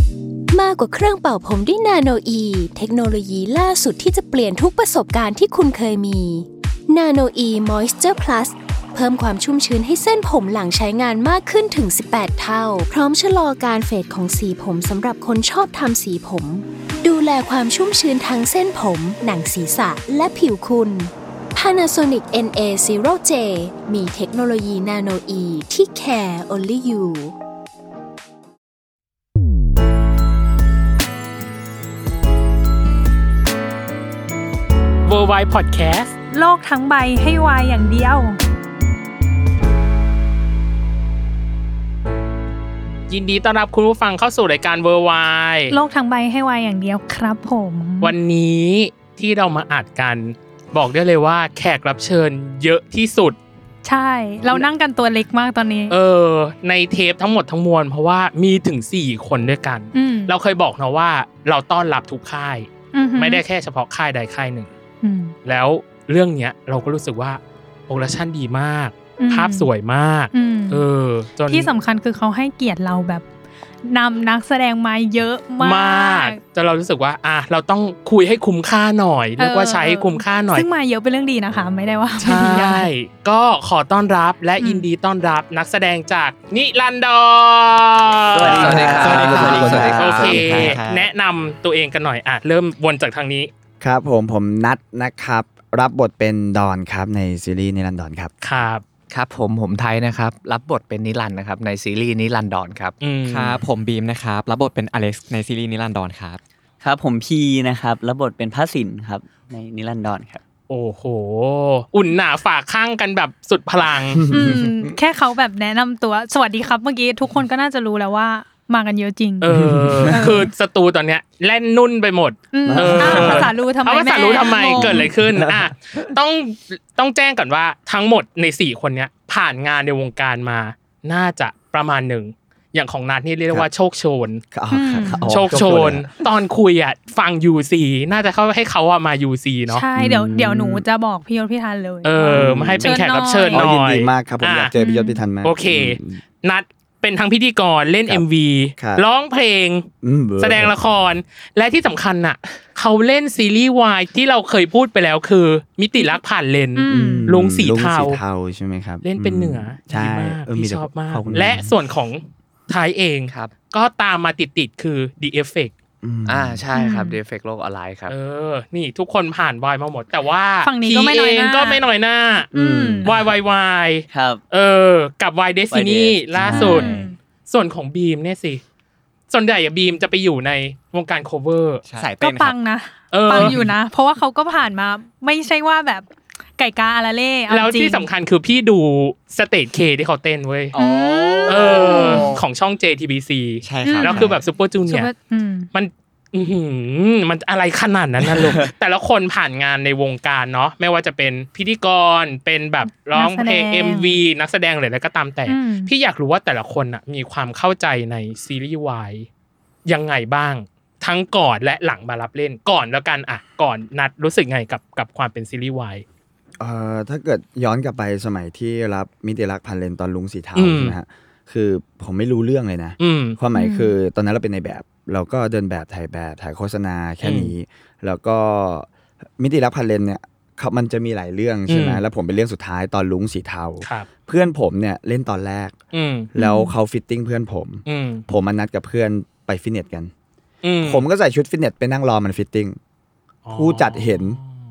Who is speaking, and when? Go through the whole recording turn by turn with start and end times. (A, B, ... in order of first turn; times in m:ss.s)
0:00.5-0:27.3 A
0:35.1-0:36.1 B
0:36.3-0:38.4 C
0:43.1-0:45.8 B
0:45.7-0:48.2 C
0:48.0-0:53.4 B
0:53.8-0:56.0 C
0:55.9-1:04.7 B
0:59.9-1:00.3 C
1:02.9-1:03.4 C
1:05.0-1:05.4 C
1:05.4-1:11.7 B
1:09.2-1:09.7 C
1:10.3-1:10.8 C
1:11.5-1:13.3 C
1:13.8-1:16.4 C
1:15.6-1:20.7 B
1:19.4-1:22.9 C
1:22.2-1:33.5 B
1:24.6-1:24.9 C
1:28.3-1:30.0 D
1:28.4-1:30.8 E
1:28.5-1:30.1 F
1:28.8-1:31.1 G
1:33.8-1:38.3 E
1:38.4-1:38.8 B
1:39.1-1:42.9 F
1:43.0-1:43.6 B
1:43.3-1:46.4 G
1:46.8-1:50.4 D
1:50.7-1:54.2 B
1:54.2-1:54.8 E
1:54.3-1:59.5 C
1:59.4-2:14.4 B
1:59.6-2:00.1 E
2:00.1-2:00.5 C
2:02.5-2:05.1 C
2:02.7-2:03.5 E
2:04.7-2:06.1 E
2:14.5-2:16.1 E
2:14.7-2:15.3 C
2:15.3-2:19.9 B
2:19.7-2:23.7 C
2:20.0-2:20.8 E
2:22.0-2:24.7 B
2:22.2-2:23.0 E
2:23.5-2:26.2 E
2:24.8-2:25.2 C
2:25.4-2:29.9 B
2:28.8-2:29.0 E
2:30.0-2:30.7 E
2:30.4-2:38.2 B
2:36.8-2:37.3 C
2:36.9-2:41.8 E
2:39.0-2:45.7 B
2:46.0-2:46.6 E
2:46.3-2:48.1 F
2:46.7-2:47.2 C
2:48.1-2:52.5 B
2:50.6-2:51.8 C
2:52.5-2:53.1 C
2:52.5-2:53.1 E
2:53.0-2:56.9 B
2:54.1-2:54.4 D
2:55.7-2:56.2 D
2:56.4-2:57.1 E
2:56.4-2:57.2 C
2:57.5-2:58.6 B
2:59.3-3:01.8 B
3:01.9-3:02.6 G
3:02.2-3:08.1 C
3:03.1-3:03.6 B
3:03.3-3:03.7 G
3:07.5-3:10.8 B
3:10.7-3:12.4 C
3:11.5-3:15.1 B
3:13.6-3:14.3 G
3:13.8-3:15.7 C
3:15.7-3:29.3 B
3:22.9-3:24.2 C
3:25.5-3:25.9 C
3:29.9-3:36.0 B
3:36.6-3:55.8 E
3:40.6-3:41.0 B
3:43.0-3:43.4 B
3:43.5-3:44.0 C
3:47.2-3:47.5 B
3:51.7-3:52.0 B
3:53.8-3:54.1 B
3:55.9-3:56.3 B
3:56.4-4:00.1 E
3:56.4-3:56.8 C
3:57.9-3:58.2 B
4:00.6-4:01.0 B
4:00.8-4:02.8 E
4:03.5-4:04.5 B
4:03.6-4:04.4 E